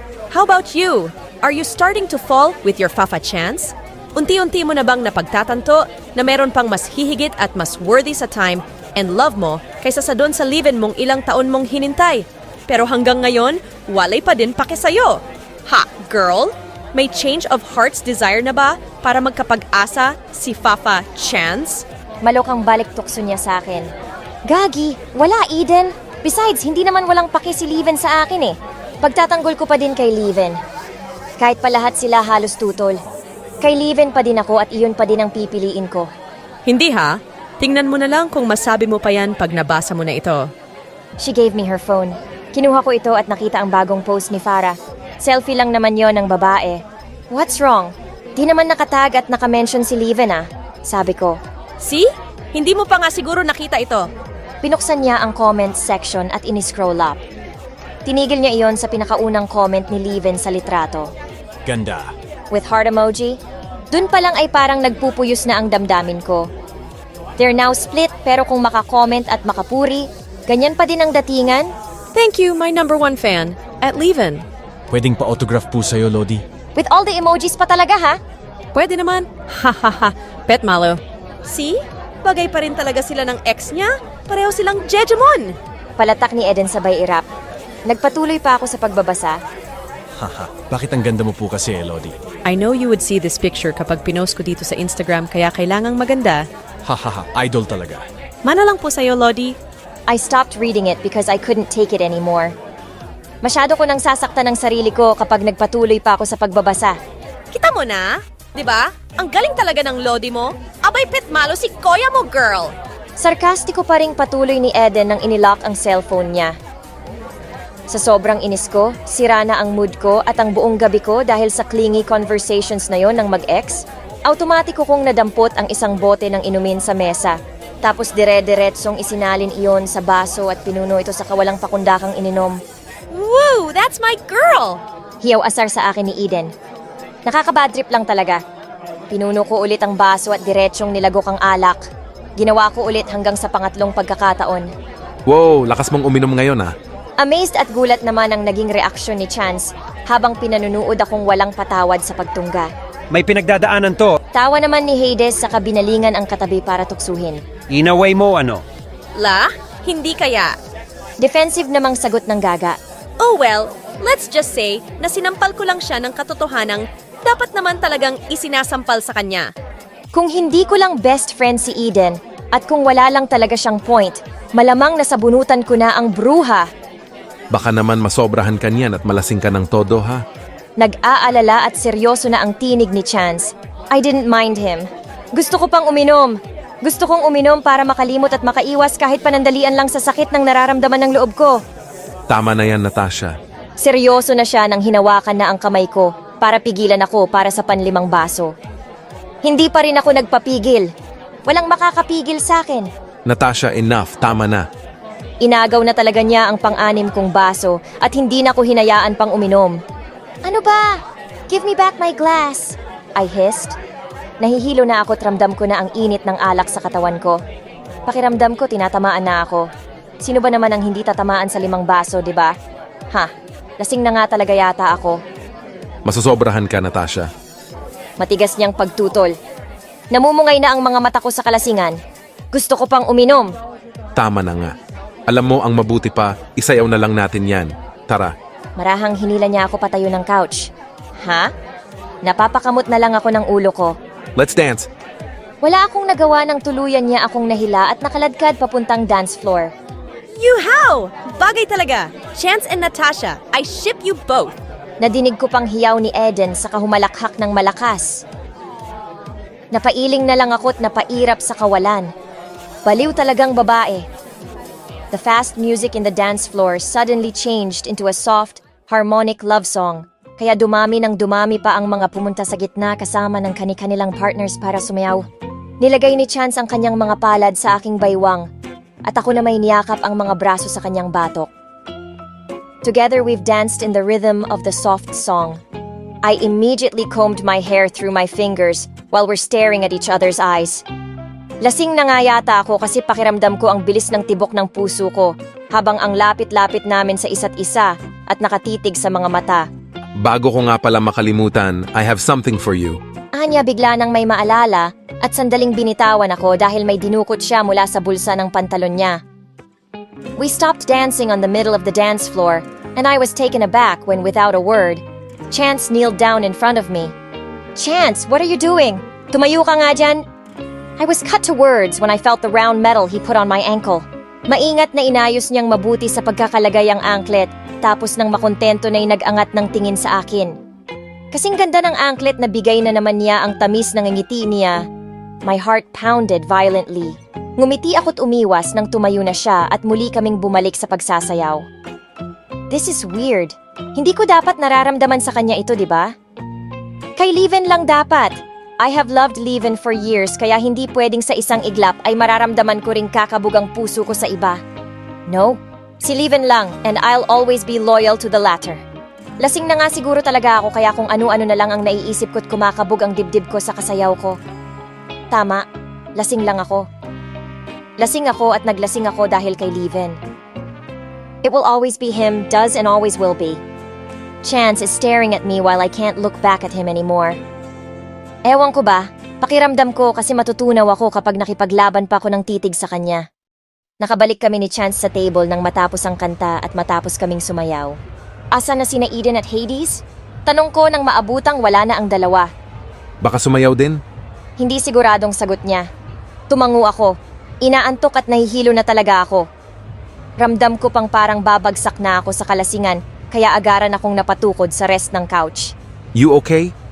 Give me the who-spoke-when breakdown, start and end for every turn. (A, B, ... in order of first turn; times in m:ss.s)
0:00.3-0:21.8 A
0:22.2-0:23.9 B
0:24.5-0:30.6 B
0:31.4-0:33.0 B
0:33.6-0:36.1 B
0:36.7-0:40.5 A
0:41.2-0:51.4 B
0:51.8-0:54.1 A
0:54.6-0:57.2 B
0:58.1-1:01.1 B
1:01.7-1:02.1 C
1:02.5-1:03.4 B
1:03.9-1:06.5 B
1:07.4-1:11.7 B
1:12.2-1:14.4 A
1:14.9-1:16.4 C
1:16.8-1:18.2 B
1:18.7-1:25.5 A
1:26.0-1:27.3 B
1:27.9-1:29.4 B
1:30.2-1:32.2 C
1:32.5-1:36.4 A
1:36.8-1:38.0 C
1:38.4-1:39.6 A
1:40.1-1:42.5 B
1:43.4-1:47.0 B
1:47.5-1:52.7 A
1:53.2-1:56.5 B
1:57.9-2:12.6 B
2:13.1-2:14.8 A
2:15.2-2:16.5 B
2:17.3-2:18.4 B
2:19.1-2:21.8 B
2:22.4-2:24.7 B
2:25.3-2:26.7 D
2:27.2-2:32.7 B
2:33.1-2:34.2 E
2:34.4-2:37.4 B
2:37.7-2:38.6 E
2:39.2-2:40.6 A
2:41.2-2:42.8 B
2:43.2-2:49.5 A
2:50.1-2:56.7 B
2:57.5-3:00.2 D
3:00.8-3:11.6 B
3:12.3-3:13.3 D
3:13.8-3:18.5 B
3:19.4-3:20.9 B
3:21.5-3:22.9 B
3:23.3-3:24.7 D
3:25.4-3:29.8 B
3:30.4-3:33.8 B
3:34.4-3:37.4 B
3:38.1-3:39.7 B
3:40.2-3:42.5 B
3:43.1-3:45.2 B
3:46.0-3:47.3 D
3:48.2-3:49.3 B
3:50.1-3:52.0 B
3:52.5-3:53.5 B
3:54.2-3:54.7 D
3:55.3-3:58.3 D
3:58.8-4:00.7 B
4:01.2-4:01.5 B
4:02.2-4:04.0 B
4:04.4-4:04.9 D
4:05.6-4:09.7 B
4:10.4-4:14.6 A
4:15.0-4:18.2 B
4:19.7-4:22.1 B
4:22.9-4:24.1 B
4:25.1-4:35.3 B
4:35.8-4:38.5 B
4:39.1-4:41.5 B
4:42.8-4:45.6 B
4:46.2-4:50.8 B
4:51.6-4:59.7 B
5:00.2-5:03.0 D
5:03.4-5:09.2 B
5:10.4-5:17.1 B
5:17.8-5:20.2 B
5:21.0-5:30.6 B
5:31.3-5:34.8 B
5:35.5-5:41.6 B
5:42.7-5:46.1 B
5:47.2-5:54.6 B
5:55.3-5:58.8 B
5:59.4-6:04.4 B
6:05.3-6:05.6 B
6:06.2-6:06.9 B
6:08.0-6:10.2 B
6:11.4-6:13.6 B
6:14.4-6:17.4 B
6:18.5-6:23.2 B
6:24.0-6:28.0 B
6:28.5-6:32.5 B
6:33.2-6:34.0 D
6:34.6-6:35.9 B
6:36.5-6:39.5 B
6:40.4-6:45.7 B
6:46.2-6:46.7 D